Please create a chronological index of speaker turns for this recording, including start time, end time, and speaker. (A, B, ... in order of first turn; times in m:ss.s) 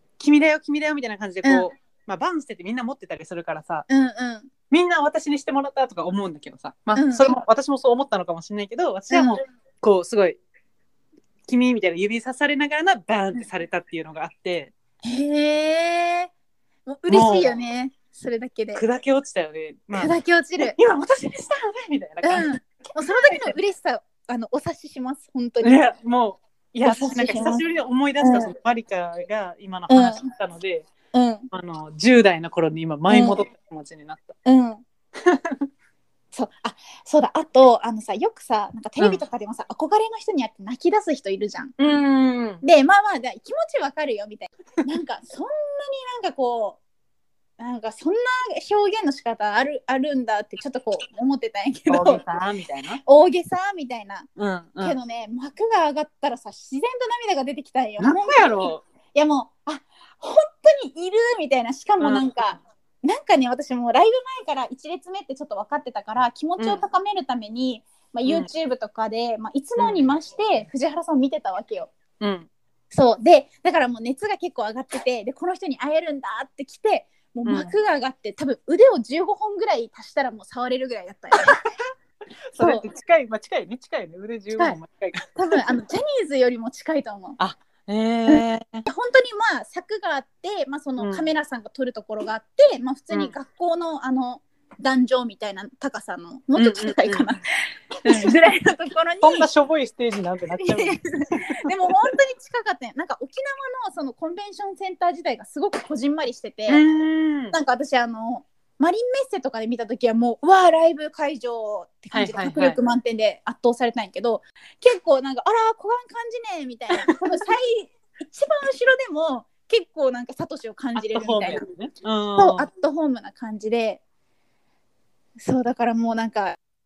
0:00.2-0:03.8 A
0:01.4-0:01.7 B
0:03.9-0:04.5 B
0:04.7-0:10.4 A
0:06.9-0:07.3 B
0:09.1-0:09.4 B
0:11.5-0:14.7 A
0:15.0-0:16.3 B
0:16.9-0:18.8 B
0:17.1-0:17.6 A
0:18.7-0:23.6 A
0:19.9-0:20.8 B
0:22.2-0:25.8 B
0:25.6-0:30.9 A
0:26.8-0:27.6 B
0:28.2-0:28.5 B
0:29.9-0:30.3 B
0:31.1-0:31.5 B
0:31.5-0:34.4 A
0:33.1-0:33.4 B
0:34.4-0:34.8 B
0:35.2-0:35.6 A
0:36.3-0:41.8 B
0:41.8-0:42.6 A
0:42.6-0:46.8 B
0:47.6-0:52.2 B
0:51.9-0:53.0 A
0:53.0-0:54.3 B
0:54.4-0:55.0 A
0:54.8-1:11.9 B
0:58.0-0:58.8 A
1:02.0-1:02.3 A
1:09.8-1:10.0 A
1:12.2-1:12.5 A
1:12.9-1:21.6 B
1:17.4-1:17.7 A
1:21.4-1:21.7 A
1:22.5-1:25.6 A
1:22.6-1:22.9 B
1:24.5-1:27.4 B
1:27.4-1:28.8 A
1:28.3-1:37.4 B
1:31.0-1:31.3 A
1:33.1-1:33.4 A
1:36.5-1:37.3 A
1:38.0-1:39.5 B
1:38.1-1:38.4 A
1:39.2-1:41.7 A
1:40.6-1:46.8 B
1:46.7-1:47.6 A
1:47.5-2:01.6 B
1:52.1-1:52.8 A
2:00.9-2:02.7 A
2:02.4-2:04.0 B
2:05.4-2:06.6 B